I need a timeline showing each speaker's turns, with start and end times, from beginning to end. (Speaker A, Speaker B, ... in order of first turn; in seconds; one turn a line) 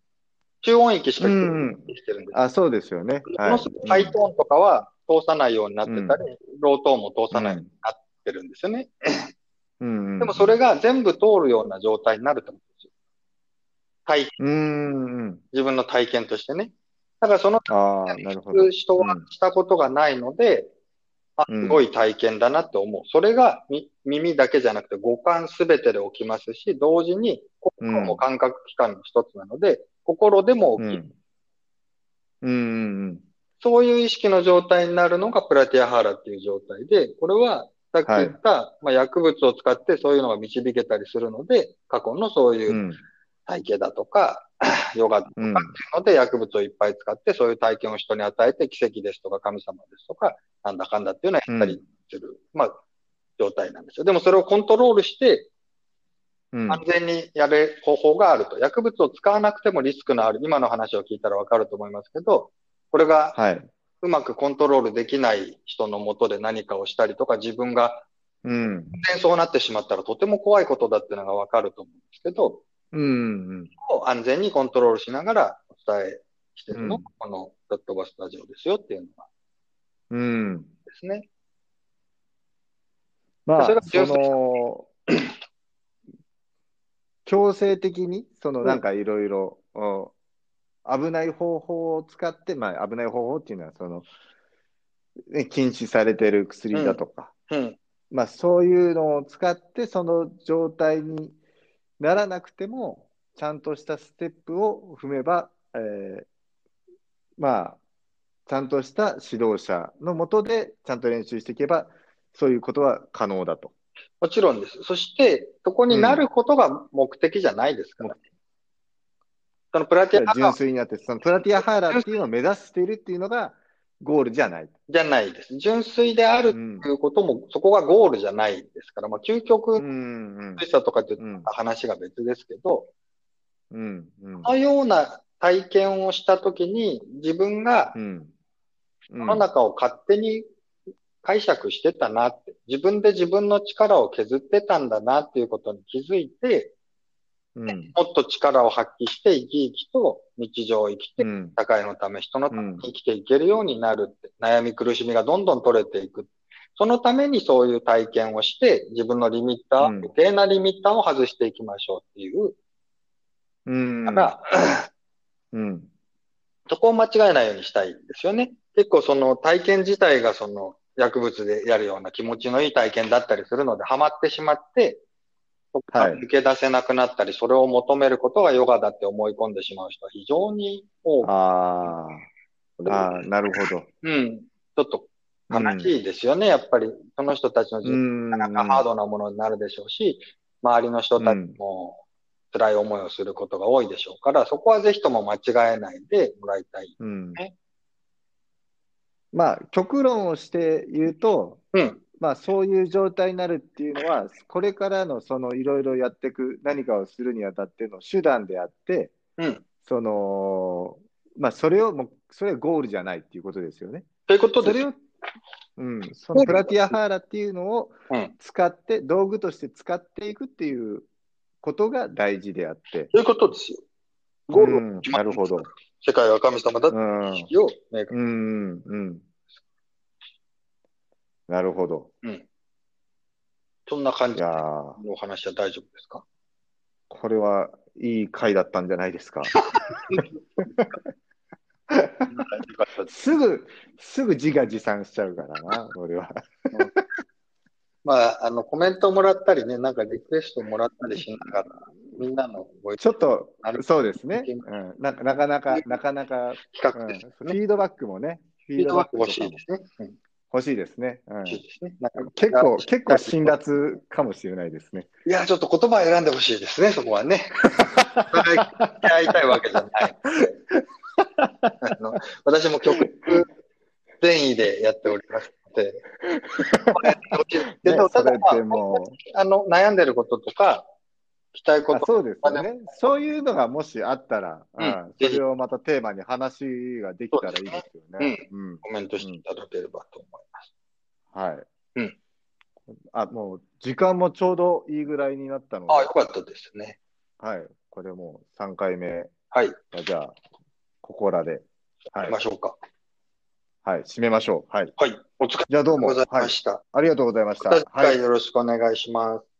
Speaker A: 0.6-2.4
Speaker B: 1.2-4.1
Speaker A: 3.2-9.2
Speaker B: 5.8-6.2
Speaker B: 7.3-7.7
Speaker B: 9.8-10.6
Speaker A: 10.2-12.9
Speaker A: 14.1-14.3
Speaker B: 14.4-15.4
Speaker A: 15.5-20.7
Speaker B: 17.7-19.2
Speaker A: 21.4-31.0
Speaker B: 21.5-21.8
Speaker B: 27.8-28.2
Speaker B: 30.8-31.1
Speaker B: 32.4-33.2
Speaker A: 33.6-42.8
Speaker B: 38.0-38.3
Speaker B: 42.7-43.0
Speaker A: 43.5-52.8
Speaker B: 45.4-45.7
Speaker B: 51.5-51.8
Speaker A: 53.4-55.5
Speaker B: 56.5-56.8
Speaker A: 56.7-63.4
Speaker B: 63.3-63.7
Speaker A: 64.0-68.0
Speaker B: 68.4-69.0
Speaker A: 68.9-72.6
Speaker B: 72.9-73.7
Speaker A: 73.8-79.2
Speaker B: 76.7-77.0
Speaker B: 80.1-80.7
Speaker A: 80.9-81.2
Speaker B: 83.5-84.9
Speaker A: 83.6-84.4
Speaker B: 87.2-90.1
Speaker B: 90.8-94.1
Speaker B: 95.3-97.3
Speaker A: 96.7-97.8
Speaker B: 98.1-101.3
Speaker B: 102.0-106.3
Speaker B: 107.4-107.8
Speaker B: 108.5-113.7
Speaker A: 114.2-118.2
Speaker B: 115.9-116.2
Speaker A: 119.7-120.5
Speaker B: 120.1-124.7
Speaker A: 121.5-122.1
Speaker A: 124.9-129.8
Speaker B: 126.5-126.9
Speaker B: 129.8-130.6
Speaker A: 130.6-132.9
Speaker B: 131.2-131.5
Speaker B: 133.7-134.5
Speaker A: 134.4-137.9
Speaker B: 137.9-138.3
Speaker B: 139.1-139.4
Speaker A: 139.2-140.4
Speaker A: 141.2-146.7
Speaker B: 147.5-147.9
Speaker A: 147.7-162.6
Speaker B: 151.2-151.6
Speaker B: 152.5-152.9
Speaker B: 159.8-160.1
Speaker B: 163.7-164.3
Speaker A: 164.1-164.9
Speaker B: 165.5-165.9
Speaker A: 166.7-175.0
Speaker A: 175.7-181.3
Speaker B: 175.9-176.2
Speaker B: 181.2-182.3
Speaker A: 182.8-197.5
Speaker B: 182.8-183.9
Speaker B: 185.5-185.9
Speaker B: 187.8-188.8
Speaker B: 191.2-191.6
Speaker B: 197.0-197.4
Speaker B: 199.3-201.6
Speaker A: 201.7-202.0
Speaker B: 202.2-209.1
Speaker B: 209.8-214.0
Speaker A: 214.3-214.8
Speaker B: 214.6-215.0
Speaker B: 215.8-221.1
Speaker A: 216.3-216.9
Speaker B: 221.6-223.1
Speaker A: 223.1-223.8
Speaker A: 224.5-228.1
Speaker B: 224.5-225.7
Speaker B: 226.9-227.5
Speaker B: 228.1-229.2
Speaker B: 231.5-232.1
Speaker A: 233.9-236.2
Speaker B: 234.3-235.0
Speaker B: 237.1-239.6
Speaker A: 239.5-240.9
Speaker B: 241.9-242.3
Speaker A: 242.3-243.2
Speaker B: 243.1-247.0
Speaker A: 248.0-254.7
Speaker B: 253.0-259.6
Speaker A: 256.6-257.6
Speaker A: 258.8-260.1
Speaker B: 260.5-261.6
Speaker A: 261.5-263.5
Speaker B: 262.2-265.1
Speaker A: 265.2-267.6
Speaker B: 267.6-269.1
Speaker A: 268.3-270.6
Speaker B: 270.7-271.7
Speaker A: 271.8-273.5
Speaker B: 273.0-273.3
Speaker A: 274.2-276.0
Speaker B: 276.2-277.1
Speaker A: 276.9-280.9
Speaker B: 277.8-279.2
Speaker A: 281.5-282.7
Speaker B: 281.9-289.4
Speaker A: 284.8-285.4
Speaker A: 287.3-290.7
Speaker B: 291.3-291.7
Speaker B: 293.1-296.1
Speaker A: 295.9-297.0
Speaker B: 297.4-299.3
Speaker A: 299.5-299.8
Speaker B: 299.9-300.4
Speaker B: 301.0-302.4
Speaker A: 302.2-302.8
Speaker B: 303.8-304.9
Speaker A: 305.0-306.8
Speaker B: 305.7-308.2
Speaker A: 307.6-309.4